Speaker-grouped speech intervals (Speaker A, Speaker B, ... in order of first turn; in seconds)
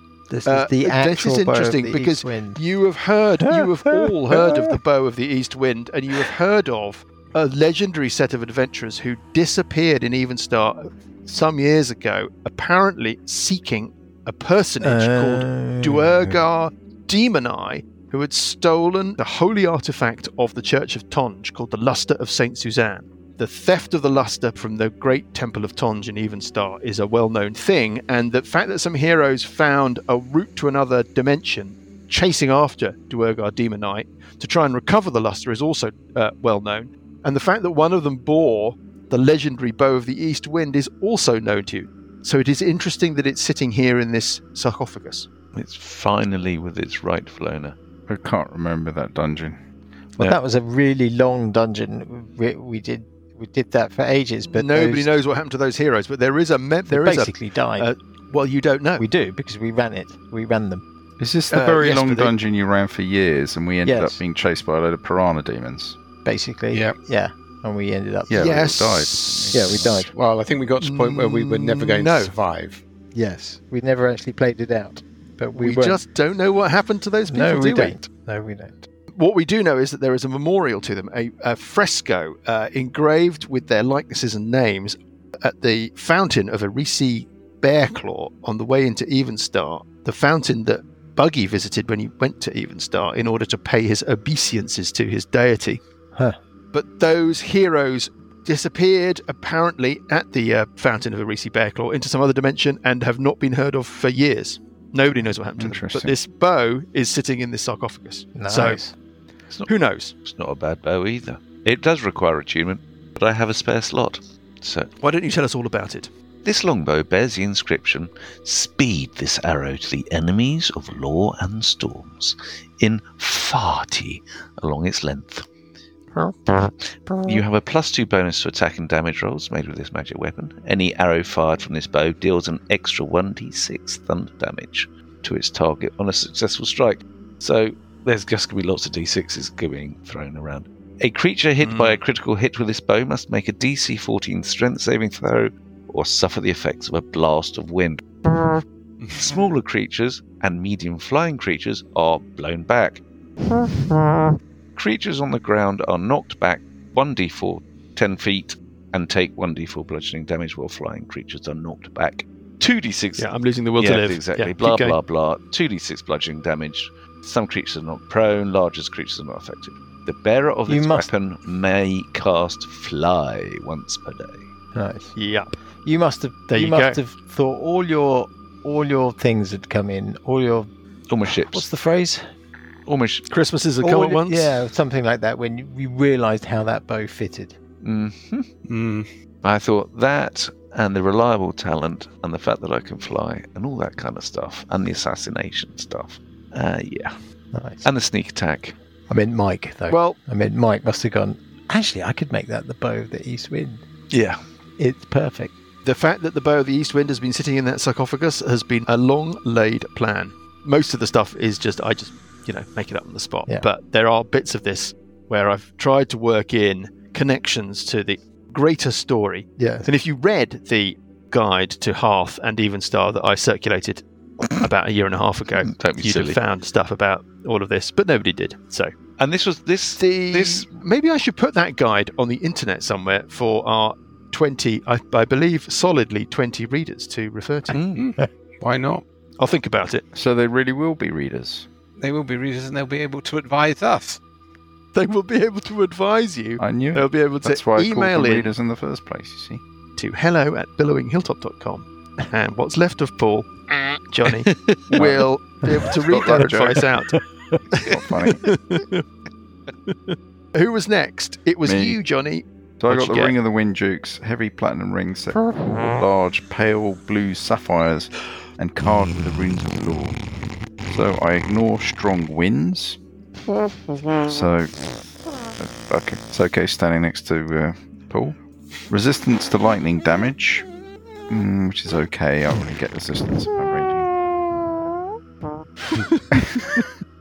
Speaker A: 0.3-2.6, 3.4-4.8, 14.8-16.4, 50.2-55.1, 56.9-57.9, 59.0-60.8, 63.8-64.2, 66.2-68.5, 69.5-70.1, 73.1-76.0, 77.3-78.9, 108.4-109.0, 127.1-127.4, 170.7-171.1, 174.7-175.2, 175.8-180.7, 181.2-182.2, 183.8-187.6, 197.5-197.8, 199.1-203.8, 204.8-205.5, 219.6-219.9
Speaker B: 0.5-45.3, 54.5-59.1, 61.5-62.4, 68.3-69.7, 70.8-72.4, 75.6-78.0, 79.1-95.8, 96.7-108.8, 109.7-110.1, 115.0-116.1, 141.6-142.0, 163.2-165.0, 175.2-175.5, 176.5-177.0, 183.3-184.6, 199.9-200.2, 205.8-228.9, 230.0-237.8, 239.4-240.1, 244.9-248.5, 250.0-257.2, 257.8-259.1, 259.9-263.4, 285.9-286.2
Speaker C: 45.5-47.8, 110.2-114.9, 116.4-125.5, 126.5-148.5, 149.2-153.0, 154.8-174.5, 181.1-181.7, 182.9-183.3, 187.8-188.5, 189.4-197.2, 197.8-198.8, 204.1-204.4, 225.7-226.4, 229.2-230.7, 237.7-238.1
Speaker D: 48.1-49.6, 61.2-66.0, 68.3-70.1, 105.6-106.2, 240.1-241.7, 246.6-249.6, 254.9-255.3, 255.9-256.9, 257.7-258.5, 261.6-262.0, 262.8-270.2, 270.9-273.0, 274.2-274.7, 275.6-278.4, 278.9-280.7, 281.3-284.1, 286.3-286.7
Speaker E: 66.7-67.0, 70.1-72.8, 149.0-149.4, 188.7-189.1, 237.9-239.1, 242.0-244.2